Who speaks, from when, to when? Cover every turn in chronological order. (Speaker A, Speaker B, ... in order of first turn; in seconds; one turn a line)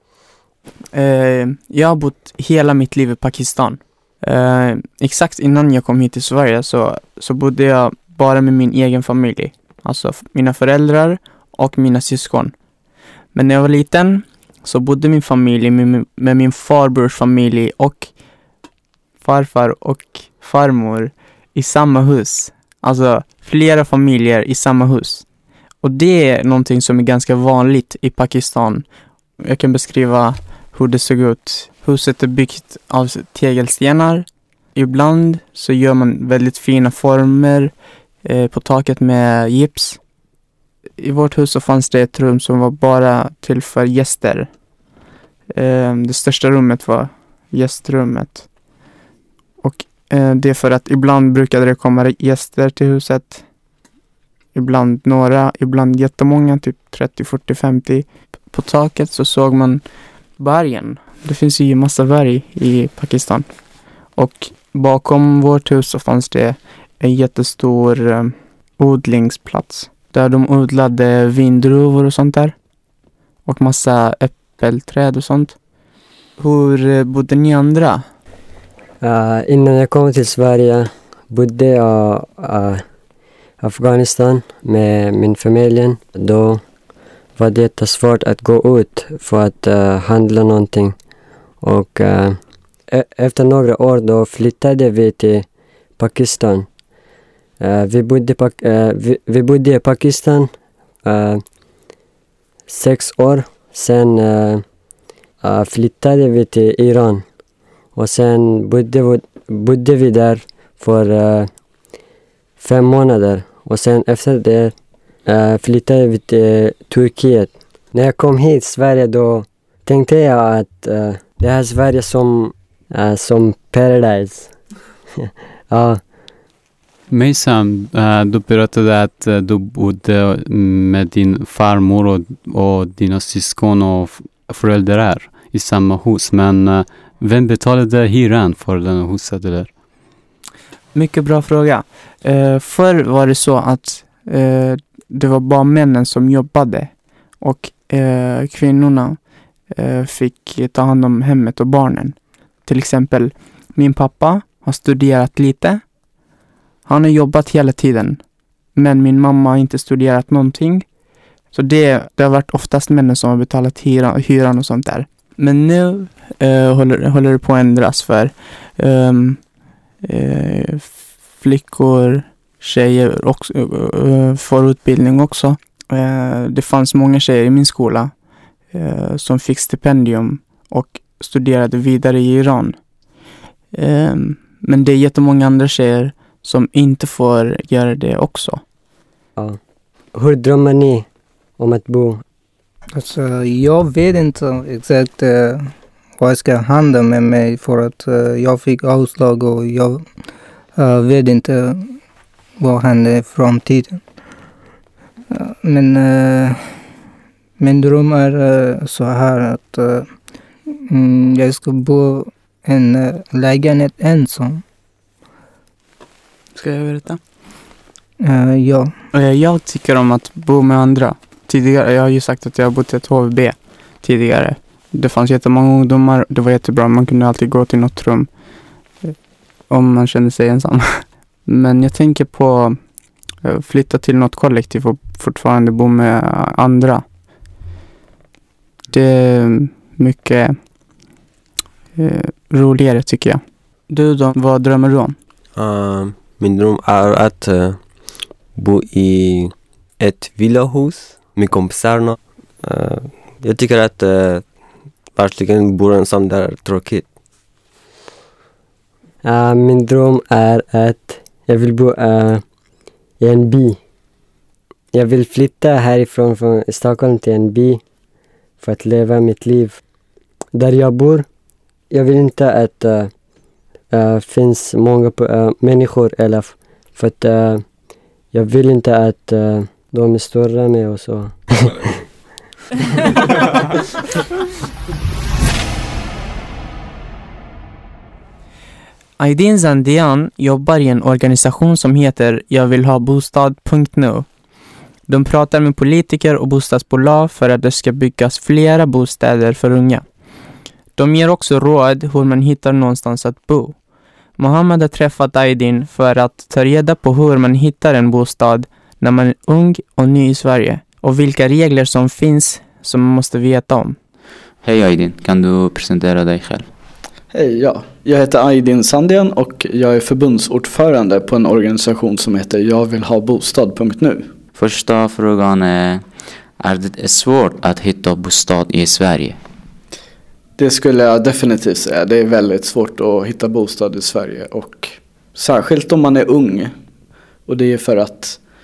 Speaker A: 0.9-12.5
Speaker A: 13.3-18.1
Speaker A: 19.2-25.2
Speaker A: 25.8-28.8
Speaker A: 29.4-40.0
Speaker A: 41.0-44.5
Speaker A: 45.5-48.5
Speaker A: 49.6-53.4
Speaker A: 54.5-59.8
Speaker A: 60.4-63.5
Speaker A: 64.1-72.5
Speaker A: 73.5-75.5
Speaker A: 76.4-78.0
Speaker B: 79.0-82.8
Speaker B: 83.6-86.6
Speaker B: 87.4-91.0
Speaker B: 91.6-92.4
Speaker B: 92.9-95.5
Speaker B: 96.0-96.7
Speaker B: 97.6-100.5
Speaker B: 101.0-101.4
Speaker B: 102.7-104.6
Speaker B: 105.4-107.2
Speaker B: 107.9-111.5
Speaker B: 112.6-114.7
Speaker B: 115.3-124.5
Speaker B: 125.2-126.0
Speaker C: 127.1-139.7
Speaker A: 140.9-149.2
Speaker A: 149.7-155.8
Speaker A: 156.8-158.2
Speaker A: 158.7-160.8
Speaker A: 161.5-169.5
Speaker A: 170.0-178.1
Speaker A: 178.7-182.8
Speaker A: 183.7-188.6
Speaker B: 190.1-191.1
Speaker B: 191.6-192.2
Speaker D: 192.9-200.1
Speaker D: 200.8-202.0
Speaker D: 202.6-204.0
Speaker D: 205.3-206.7
Speaker D: 207.6-210.1
Speaker D: 210.9-214.6
Speaker A: 216.6-217.2
Speaker D: 218.2-218.9
Speaker A: 219.1-228.3
Speaker A: 229.7-232.8
Speaker A: 233.4-237.0
Speaker A: 238.9-240.6
Speaker A: 241.9-245.2
Speaker E: 245.5-247.8
Speaker E: 248.6-254.4
Speaker E: 255.2-257.1
Speaker B: 259.2-262.4
Speaker B: 263.2-263.8
Speaker B: 264.9-267.8
Speaker B: 268.6-269.8
Speaker B: 270.5-271.3
Speaker B: 271.9-273.1
Speaker B: 273.9-277.6
Speaker B: 278.3-282.0
Speaker A: 289.2-294.3
Speaker A: 295.1-300.0
Speaker A: 301.0-303.8
Speaker A: 304.4-313.9
Speaker F: 314.6-316.7
Speaker G: 317.3-324.3
Speaker F: 324.5-326.0
Speaker F: 326.6-329.4
Speaker G: 330.6-336.7
Speaker G: 337.5-338.4